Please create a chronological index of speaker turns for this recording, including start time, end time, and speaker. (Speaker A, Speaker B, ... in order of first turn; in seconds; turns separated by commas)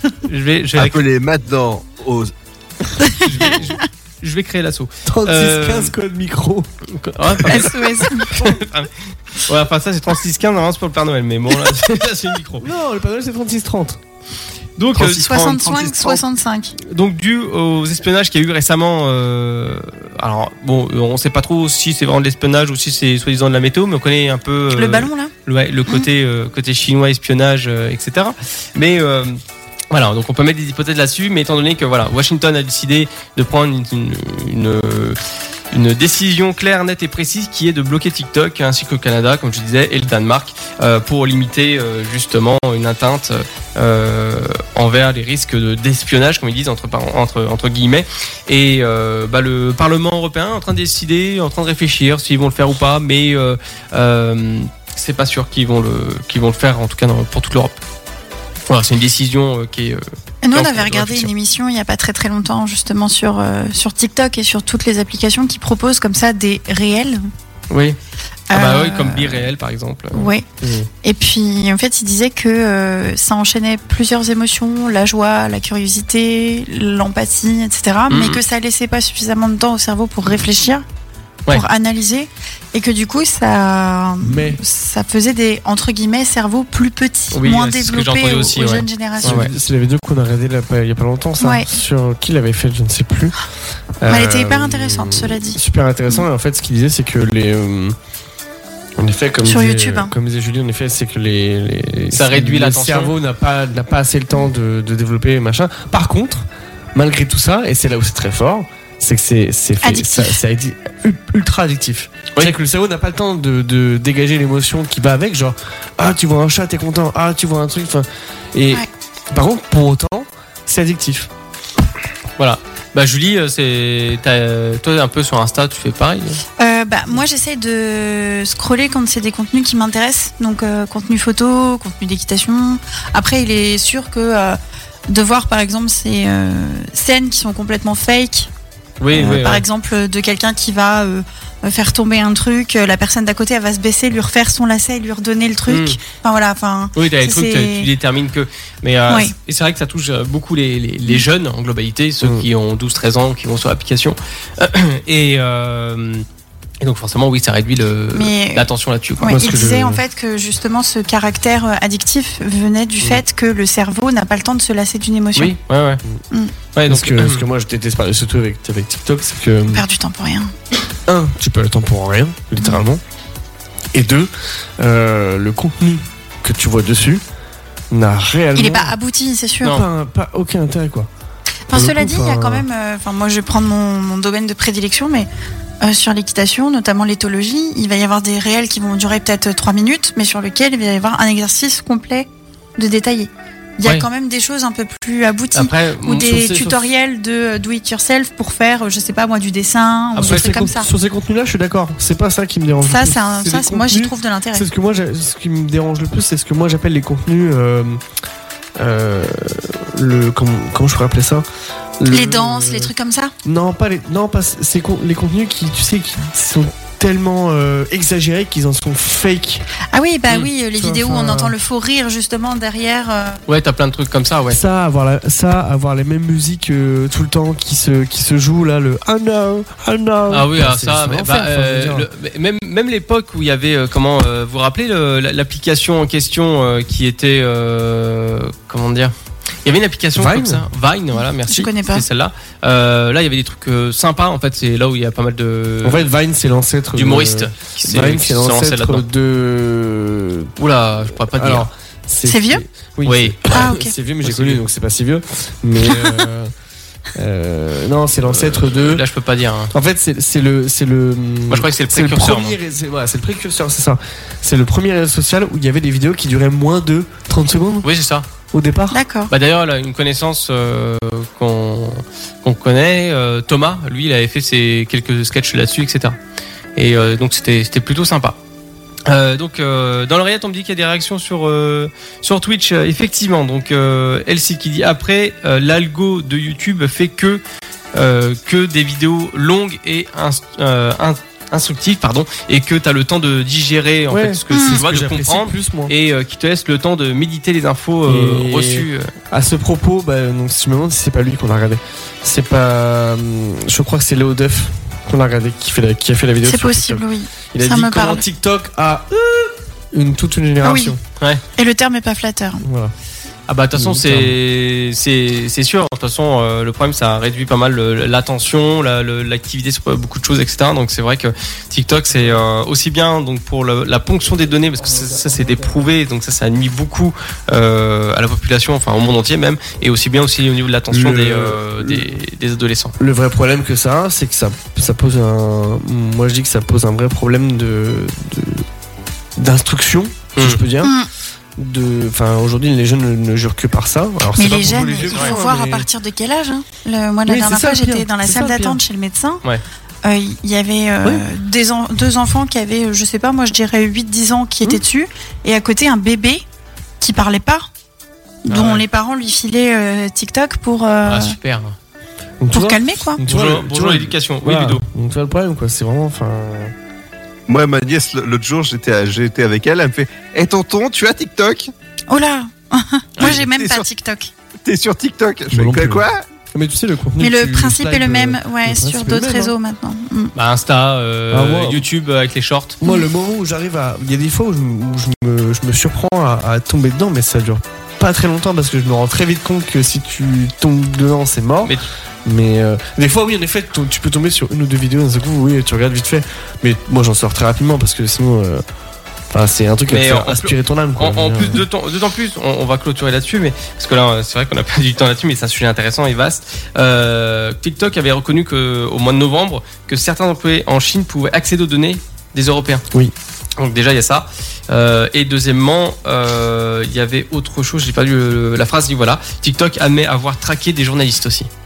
Speaker A: 0.3-1.0, Speaker B: 0.8-2.3, Speaker C: 3.0-3.8, Speaker A: 3.2-5.9, Speaker D: 5.1-6.7, Speaker A: 7.0-12.6, Speaker C: 7.5-8.3, Speaker D: 12.6-14.0, Speaker A: 14.8-15.7, Speaker B: 14.9-16.2, Speaker C: 15.0-16.8, Speaker A: 16.8-29.4, Speaker C: 24.7-25.3, Speaker A: 29.9-35.2, Speaker A: 35.7-57.8, Speaker A: 58.7-61.3, Speaker C: 60.4-67.2, Speaker A: 67.7-68.0, Speaker C: 68.5-69.5, Speaker A: 68.5-70.3, Speaker C: 70.1-70.5, Speaker D: 70.6-70.9, Speaker C: 71.0-80.8, Speaker A: 78.1-78.4, Speaker C: 81.5-89.5, Speaker D: 84.2-84.6, Speaker A: 87.3-89.5, Speaker D: 89.2-93.3, Speaker C: 91.4-91.7, Speaker D: 94.0-98.0, Speaker C: 94.1-96.3, Speaker D: 99.0-121.3, Speaker C: 99.4-100.1, Speaker A: 102.1-103.1, Speaker C: 109.8-110.4, Speaker A: 122.4-126.4, Speaker C: 126.6-138.5, Speaker A: 139.0-139.7, Speaker C: 139.1-147.9, Speaker A: 145.7-146.0, Speaker A: 147.0-156.2, Speaker C: 149.1-149.3, Speaker D: 152.2-152.5, Speaker A: 156.8-159.4, Speaker C: 158.1-165.6, Speaker D: 159.3-160.0, Speaker A: 165.4-166.0, Speaker A: 166.8-167.4, Speaker D: 166.9-169.8, Speaker C: 169.7-170.5, Speaker D: 171.1-173.0, Speaker D: 173.9-177.2, Speaker D: 177.9-178.9, Speaker C: 178.6-179.8, Speaker D: 179.6-181.1, Speaker C: 181.7-185.3, Speaker D: 181.7-182.7, Speaker C: 185.8-200.9, Speaker A: 195.6-196.7, Speaker D: 200.2-208.0, Speaker C: 202.8-204.7, Speaker D: 208.8-211.5, Speaker D: 212.0-212.9, Speaker C: 212.1-213.3, Speaker D: 213.4-219.6, Speaker C: 219.9-223.4, Speaker D: 220.8-221.5, Speaker A: 223.5-224.6, Speaker D: 224.5-232.1, Speaker A: 230.3-239.1, Speaker A: 239.7-246.1, Speaker D: 240.2-240.7, Speaker C: 241.5-242.1, Speaker D: 245.8-250.5, Speaker A: 246.9-249.0, Speaker A: 250.6-251.7, Speaker D: 251.3-256.5, Speaker C: 252.2-252.6, Speaker A: 253.1-253.4, Speaker C: 253.5-253.9, Speaker A: 254.2-254.6, Speaker D: 257.1-259.0, Speaker A: 258.3-259.7, Speaker D: 259.7-267.9, Speaker A: 261.5-262.6, Speaker A: 267.8-268.3, Speaker D: 268.5-269.0, Speaker C: 268.9-269.3, Speaker A: 269.3-276.2, Speaker A: 276.8-278.4, Speaker A: 279.1-287.4, Speaker A: 287.9-299.1, Speaker D: 294.1-295.9, Speaker C: 294.5-294.8, Speaker D: 298.1-311.0, Speaker C: 306.4-308.2, Speaker C: 310.6-310.9, Speaker C: 311.6-312.6, Speaker D: 312.6-312.9, Speaker A: 313.5-332.9, Speaker D: 313.8-314.4, Speaker D: 322.1-322.4, Speaker D: 324.8-325.8, Speaker D: 330.9-332.1, Speaker D: 333.0-338.6, Speaker D: 339.4-341.0, Speaker A: 340.4-340.6, Speaker C: 340.8-341.1, Speaker D: 341.6-345.9, Speaker C: 344.4-349.4, Speaker A: 345.1-345.4, Speaker D: 347.3-348.8, Speaker C: 350.0-356.4, Speaker C: 357.0-357.7, Speaker C: 358.4-361.4, Speaker A: 358.5-358.9, Speaker A: 361.1-361.8, Speaker D: 362.4-366.7, Speaker C: 362.5-363.2, Speaker A: 363.3-364.8, Speaker B: 367.5-371.7, Speaker C: 372.1-374.3, Speaker B: 373.2-373.9, Speaker B: 374.7-376.2, Speaker D: 375.5-379.5, Speaker C: 377.2-380.3, Speaker A: 380.4-382.8, Speaker D: 381.3-381.9, Speaker D: 382.8-398.6, Speaker D: 399.3-401.6, Speaker A: 399.9-412.9, Speaker A: 413.6-421.5